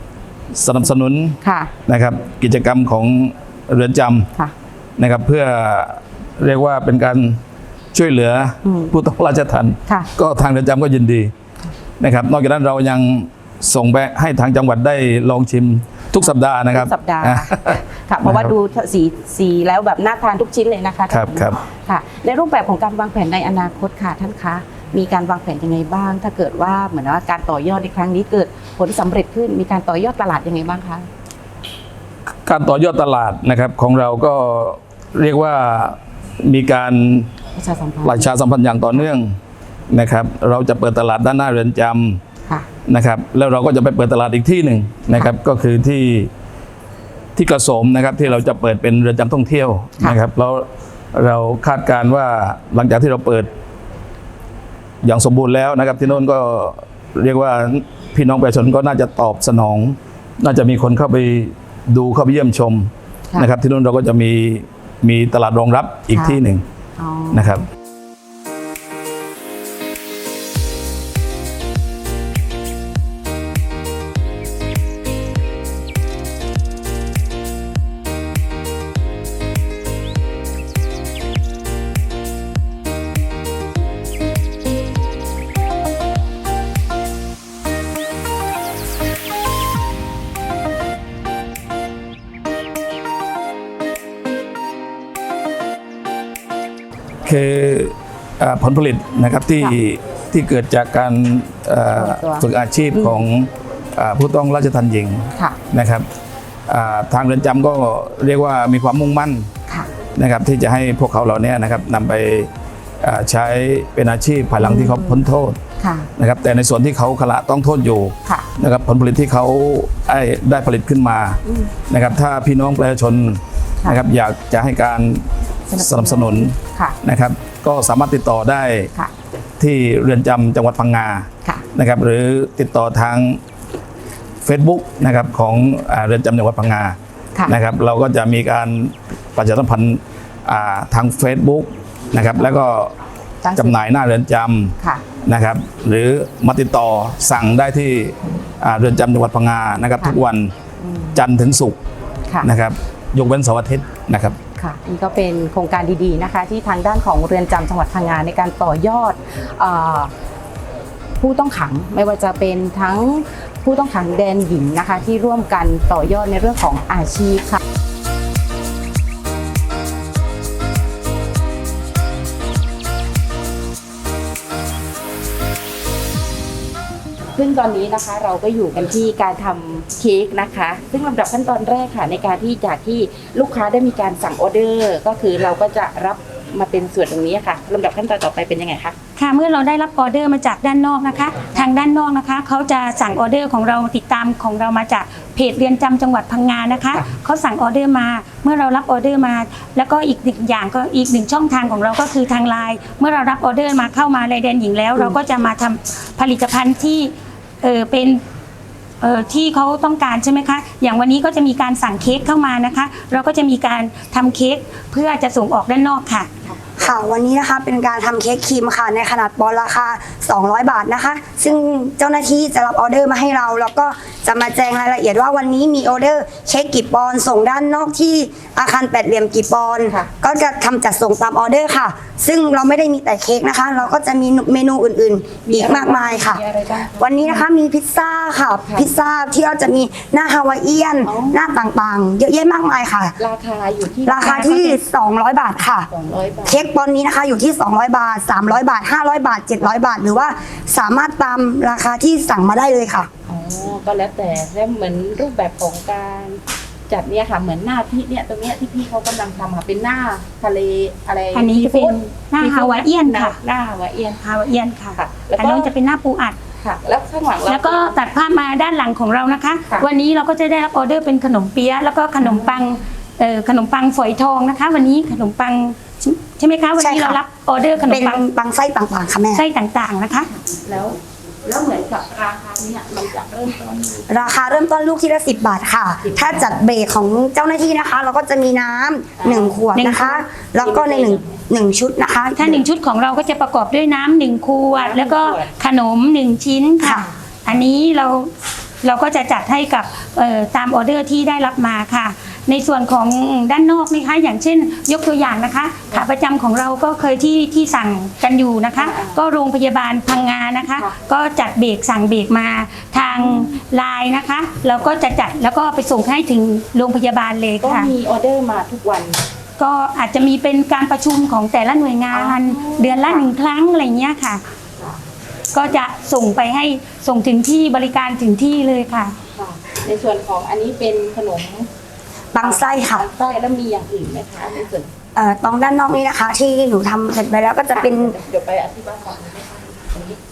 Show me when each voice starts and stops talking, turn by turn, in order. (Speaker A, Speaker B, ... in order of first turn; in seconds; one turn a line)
Speaker A: 0.5-4.3
Speaker B: 1.4-1.7
Speaker A: 5.0-7.4
Speaker A: 7.9-11.3
Speaker B: 8.6-8.9
Speaker A: 12.0-18.4
Speaker B: 16.2-31.1
Speaker A: 21.1-21.6
Speaker A: 32.4-37.3
Speaker B: 37.5-38.3
Speaker A: 38.0-39.4
Speaker A: 39.9-42.2
Speaker A: 42.9-46.3
Speaker A: 47.3-53.5
Speaker A: 55.0-66.6
Speaker B: 66.1-66.4
Speaker B: 67.0-67.6
Speaker A: 67.3-67.6
Speaker A: 97.2-106.0
Speaker B: 102.0-103.2
Speaker A: 106.7-109.5
Speaker A: 110.1-115.6
Speaker B: 114.6-115.2
Speaker B: 115.8-116.1
Speaker A: 116.2-125.3
Speaker B: 121.5-121.7
Speaker B: 125.7-127.0
Speaker A: 125.8-128.9
Speaker A: 129.6-133.4
Speaker A: 134.4-137.0
Speaker A: 137.5-142.9
Speaker B: 143.4-143.8
Speaker A: 143.6-150.5
Speaker B: 144.8-145.0
Speaker B: 150.8-151.2
Speaker A: 151.1-151.8
Speaker A: 152.4-154.4
Speaker B: 154.6-160.1
Speaker B: 161.2-167.6
Speaker B: 177.3-188.9
Speaker C: 189.2-208.2
Speaker C: 209.0-216.3
Speaker D: 216.8-243.2
Speaker B: 235.4-237.4
Speaker B: 238.6-238.9
Speaker B: 241.0-241.6
Speaker B: 243.2-244.8
Speaker D: 244.1-245.9
Speaker B: 245.9-246.7
Speaker D: 246.4-253.1
Speaker B: 253.2-264.2
Speaker C: 261.3-263.4
Speaker C: 264.2-266.4
Speaker B: 264.9-265.7
Speaker B: 266.6-268.0
Speaker C: 267.4-278.2
Speaker B: 272.2-272.7
Speaker D: 276.8-277.2
Speaker D: 277.9-279.4
Speaker C: 279.3-280.3
Speaker B: 280.4-284.1
Speaker D: 284.1-292.6
Speaker B: 286.0-286.5
Speaker B: 289.2-289.6
Speaker C: 289.7-290.2
Speaker B: 290.4-291.4
Speaker C: 292.4-317.9
Speaker B: 294.7-295.5
Speaker D: 296.8-297.1
Speaker B: 308.8-309.2
Speaker B: 312.9-313.6
Speaker B: 317.6-319.2
Speaker C: 319.6-324.4
Speaker B: 322.1-323.3
Speaker C: 325.5-329.2
Speaker B: 329.3-331.7
Speaker D: 332.3-333.1
Speaker B: 332.4-334.9
Speaker D: 335.1-338.1
Speaker B: 337.7-340.2